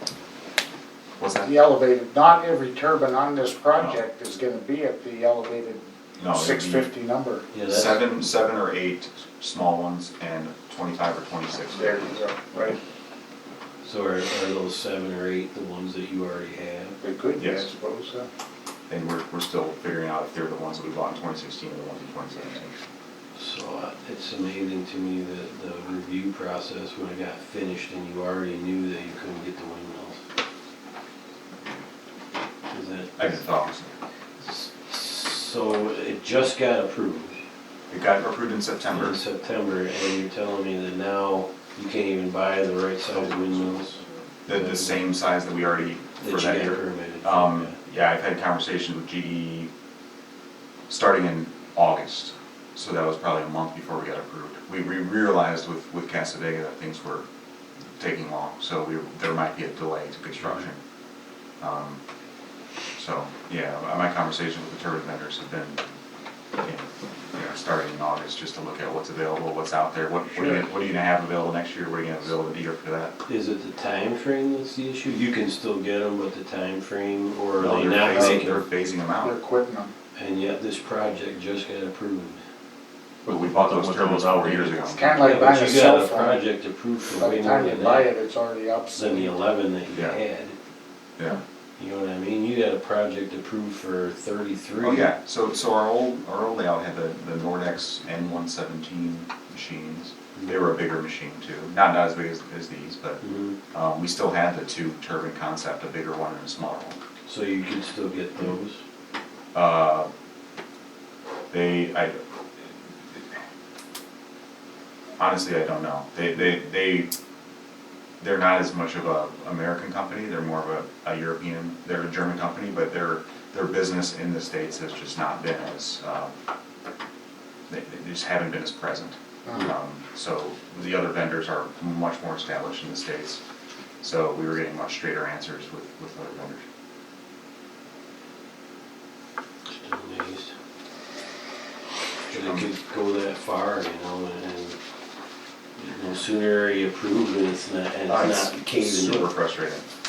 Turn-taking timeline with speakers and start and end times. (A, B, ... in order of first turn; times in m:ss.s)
0:01.2-0:01.5 A
0:01.4-0:07.4 B
0:06.2-0:06.9 A
0:07.5-0:08.0 C
0:07.7-0:12.1 A
0:11.7-0:12.8 B
0:13.8-0:17.0 C
0:17.0-0:18.3 B
0:17.4-0:17.7 A
0:18.9-0:22.7 A
0:23.4-0:30.2 C
0:32.7-0:33.4 C
0:33.2-0:33.9 A
0:34.4-0:37.4 C
0:37.9-0:39.2 A
0:38.9-0:44.9 C
0:44.4-0:49.7 A
0:46.2-0:47.7 C
0:50.9-0:57.2 A
0:58.0-1:00.8 A
1:01.6-1:02.0 A
1:03.0-1:05.8 A
1:06.6-1:13.1 A
1:10.4-1:10.6 B
1:13.2-1:18.6 C
1:17.6-1:19.3 A
1:18.1-1:18.4 B
1:19.2-1:19.9 B
1:20.1-1:22.4 C
1:23.2-1:25.3 A
1:24.9-1:26.4 B
1:25.2-1:28.1 C
1:27.2-1:29.3 B
1:28.9-1:30.6 C
1:29.9-1:30.2 A
1:31.8-1:35.1 C
1:34.8-1:47.0 A
1:40.4-1:40.7 C
1:43.2-1:43.6 C
1:47.2-1:48.8 C
1:49.5-1:50.1 A
1:51.5-1:52.2 A
1:55.2-1:57.1 A
1:58.2-2:06.3 A
2:07.7-2:13.4 A
2:09.4-2:09.7 B
2:14.0-2:16.6 A
2:19.7-2:20.5 C
2:22.3-2:24.8 C
2:22.3-2:22.7 A
2:25.8-2:29.3 C
2:28.1-2:29.8 A